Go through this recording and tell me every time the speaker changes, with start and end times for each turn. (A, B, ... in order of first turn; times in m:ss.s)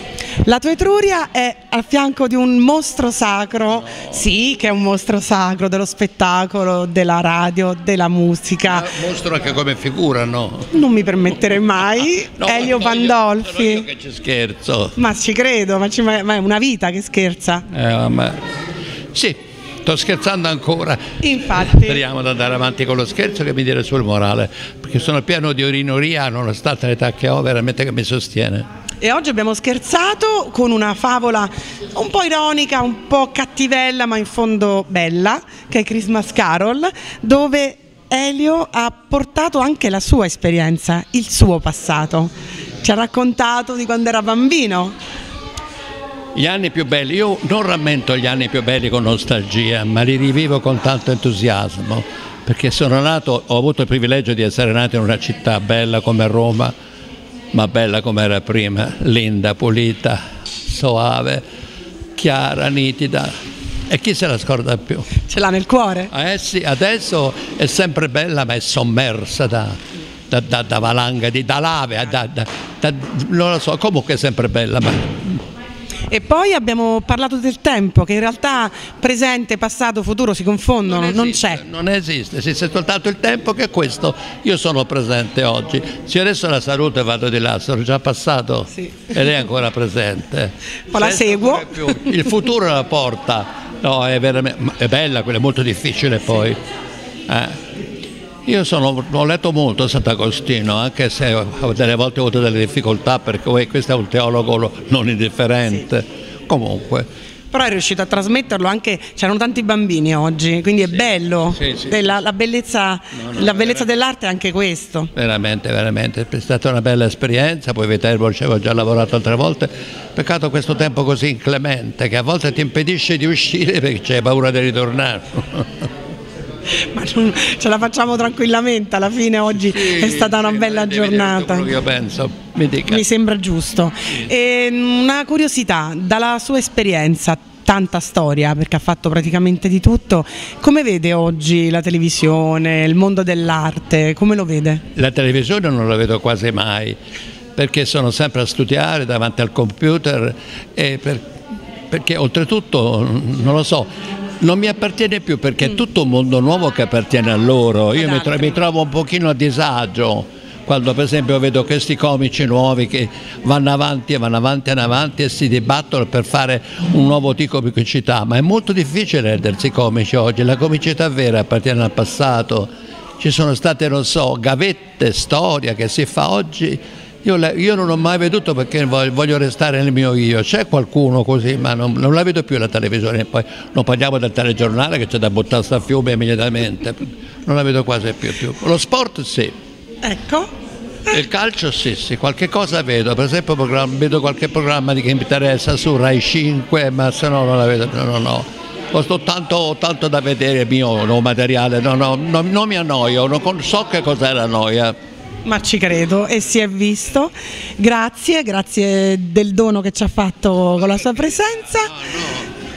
0:00.4-0:08.9 A
0:03.8-0:04.1 B
0:08.7-0:10.7 B
0:10.7-0:13.8 A
0:12.4-0:15.0 B
0:15.0-0:17.7 A
0:17.7-0:18.4 B
0:19.1-0:28.7 B
0:21.2-0:22.0 A
0:29.0-0:45.0 A
0:46.3-0:56.7 B
0:57.5-1:01.4 B
1:02.2-1:03.3 B
1:03.9-1:05.1 B
1:05.2-1:06.1 A
1:06.1-1:09.8 B
1:10.3-1:15.3 B
1:16.1-1:21.6 A
1:20.8-1:36.6 B
1:28.8-1:29.1 A
1:30.9-1:32.2 A
1:37.3-1:37.6 B
1:38.4-1:47.0 B
1:47.5-1:55.1 A
1:51.6-1:52.1 B
1:53.1-1:53.9 B
1:55.1-2:05.9 B
2:06.9-2:11.7 A
2:09.5-2:13.0 B
2:12.9-2:24.8 A
2:25.0-2:27.0 B
2:27.6-2:31.2 B
2:31.9-2:33.9 B
2:34.4-3:09.5 B
2:38.0-2:38.6 A
3:10.0-3:10.5 A
3:11.1-3:25.0 B
3:25.4-3:32.0 A
3:32.0-3:32.5 B